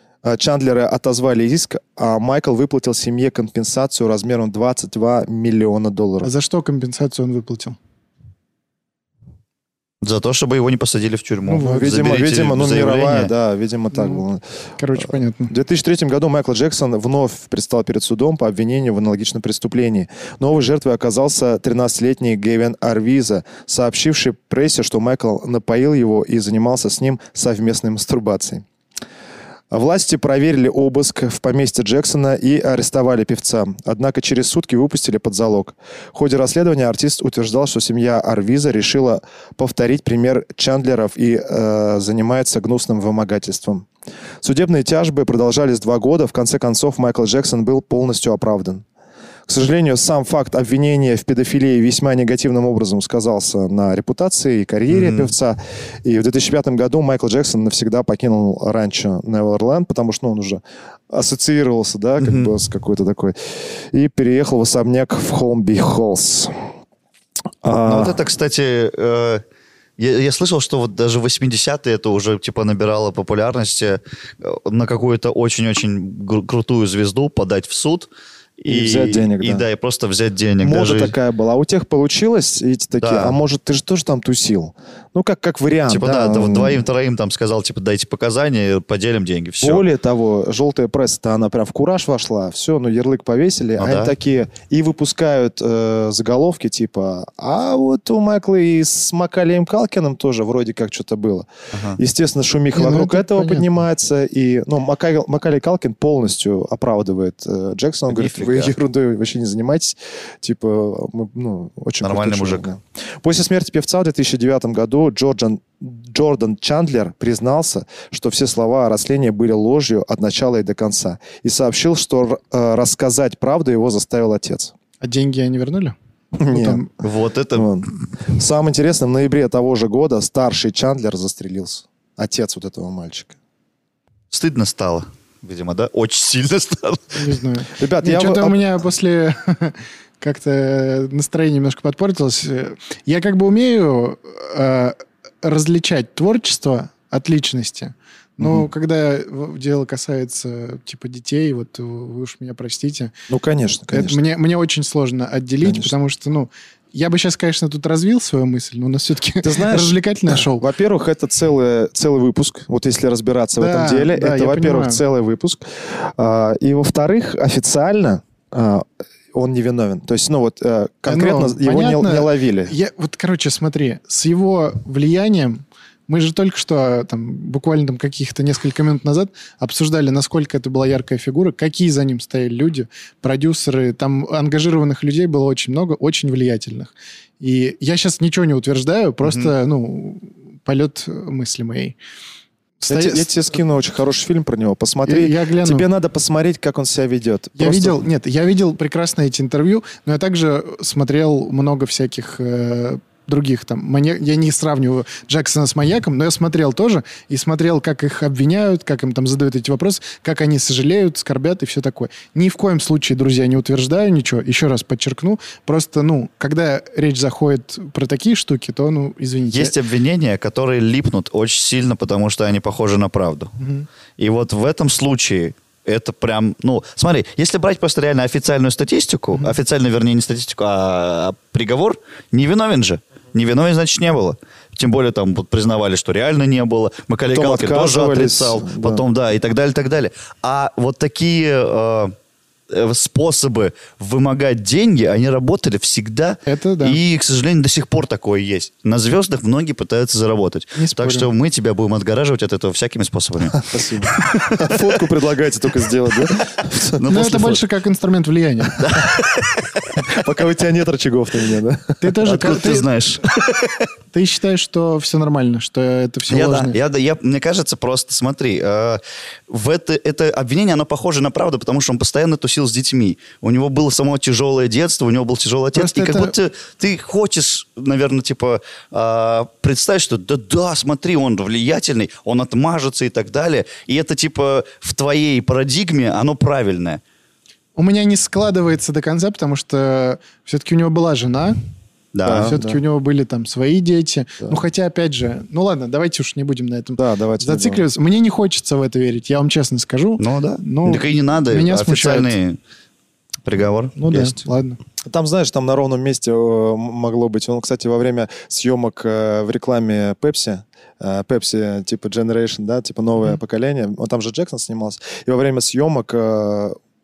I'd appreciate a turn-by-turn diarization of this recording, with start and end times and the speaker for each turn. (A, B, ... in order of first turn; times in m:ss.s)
0:00.2-0:06.3 A
0:06.2-0:07.8 B
0:10.0-0:13.3 C
0:11.5-0:12.0 B
0:11.6-0:14.4 A
0:13.9-0:14.2 B
0:14.8-0:15.5 B
0:15.5-0:28.6 A
0:29.7-0:43.9 A
0:44.4-0:48.8 A
0:49.5-1:06.7 A
0:54.9-0:55.3 C
1:02.2-1:02.5 C
1:07.6-1:08.2 A
1:07.9-1:09.4 C
1:10.0-1:18.1 C
1:18.6-1:21.1 C
1:18.7-1:19.7 A
1:20.6-1:26.8 A
1:23.0-1:23.4 C
1:25.9-1:29.8 C
1:29.6-2:04.7 A
1:33.8-1:34.1 C
1:41.7-1:42.0 C
1:42.7-1:43.7 B
1:48.1-1:48.7 C
1:52.0-1:52.7 C
2:05.0-2:06.0 B
2:06.4-2:06.8 A
2:06.5-2:06.9 B
2:07.0-2:07.8 C
2:07.5-2:13.4 A
2:14.3-2:17.4 C
2:17.1-2:33.1 B
2:17.8-2:18.6 A
2:33.3-2:34.2 A
2:33.9-2:40.6 B
2:35.6-2:35.9 A
2:39.4-2:52.7 A
2:43.6-2:45.0 B
2:51.1-3:12.0 B
3:09.2-3:09.5 C
3:12.8-3:13.3 B
3:12.9-3:18.0 A
3:15.1-3:15.9 B
3:17.6-3:39.8 B
3:39.5-3:43.6 C
3:43.6-3:43.9 B
3:44.2-4:02.2 C
3:57.3-3:59.0 A
4:02.7-4:14.8 C
4:06.5-4:07.0 B
4:10.8-4:11.3 B
4:13.5-4:17.1 A
4:16.9-4:17.6 C
4:17.0-4:18.9 B
4:18.8-4:20.1 C
4:20.1-4:22.1 A
4:22.0-4:22.9 B
4:22.2-4:23.9 C
4:24.1-4:26.8 B
4:26.3-4:47.0 C
4:35.7-4:36.3 B
4:47.8-4:51.6 B
4:52.1-4:52.6 C
4:52.2-4:52.8 A
4:52.4-5:02.3 B
4:57.0-4:57.8 A
5:00.2-5:02.6 C
5:03.4-5:04.4 C
5:04.0-5:04.8 B
5:05.1-5:16.8 A